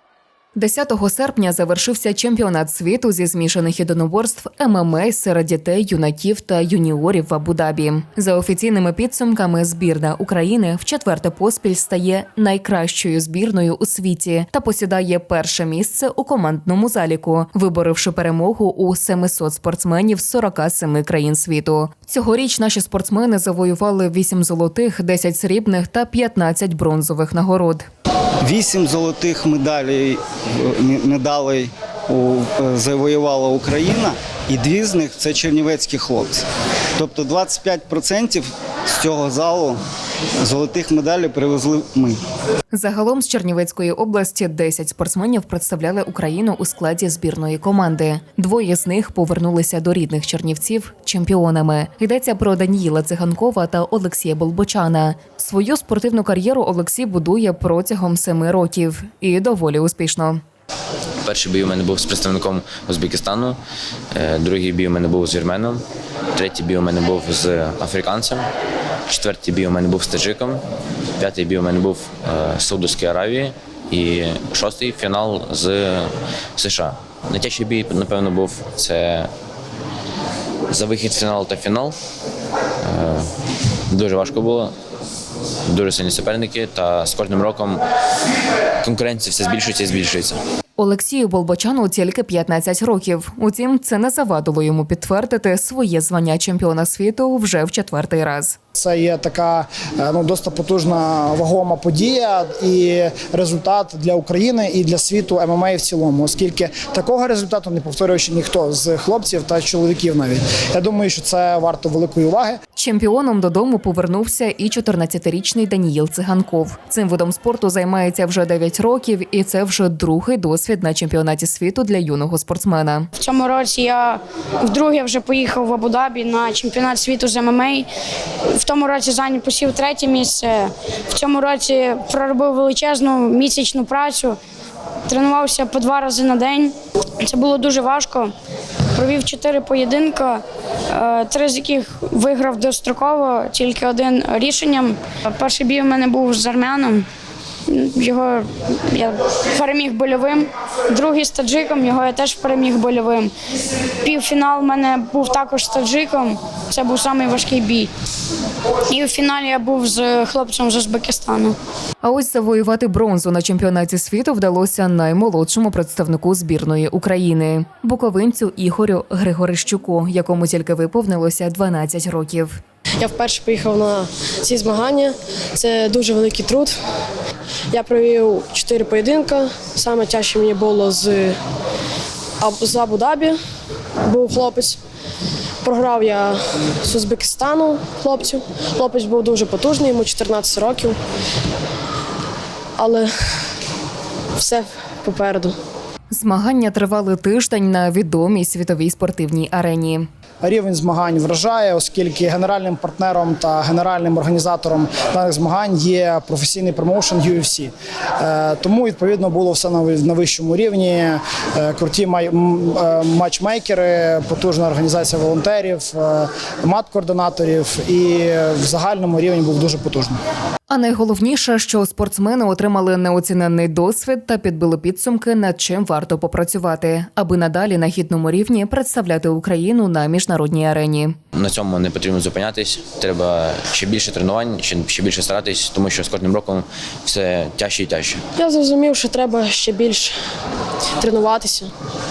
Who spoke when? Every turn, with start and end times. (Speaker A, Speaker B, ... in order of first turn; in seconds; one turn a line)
Speaker A: 0.6-27.9
Speaker B: 28.4-36.4
Speaker B: 37.0-39.8
Speaker B: 40.4-42.2
Speaker A: 42.7-60.4
Speaker C: 61.2-63.6
Speaker C: 64.1-68.5
Speaker C: 69.1-70.6
Speaker C: 71.2-79.3
Speaker C: 80.7-82.0
Speaker C: 82.8-83.3
Speaker C: 83.9-84.7
Speaker C: 85.7-87.8
Speaker C: 88.8-90.4
Speaker A: 90.8-98.6
Speaker D: 98.8-112.6
Speaker A: 112.8-123.1
Speaker E: 123.2-127.9
Speaker E: 128.6-134.4
Speaker E: 135.1-138.3
Speaker E: 138.9-140.4
Speaker E: 140.9-147.1
Speaker E: 147.7-153.3
Speaker E: 154.0-157.9
Speaker E: 158.9-161.6
Speaker A: 162.0-172.6
Speaker F: 173.0-176.7
Speaker F: 177.7-181.3
Speaker F: 182.4-183.3
Speaker F: 184.1-184.8
Speaker F: 185.6-186.3
Speaker F: 186.9-190.9
Speaker F: 192.8-193.0
Speaker F: 194.4-195.5
Speaker A: 196.1-200.1
Speaker D: 200.4-220.2
Speaker A: 220.7-231.2
Speaker C: 231.3-238.2
Speaker F: 238.4-240.1
Speaker F: 241.0-241.7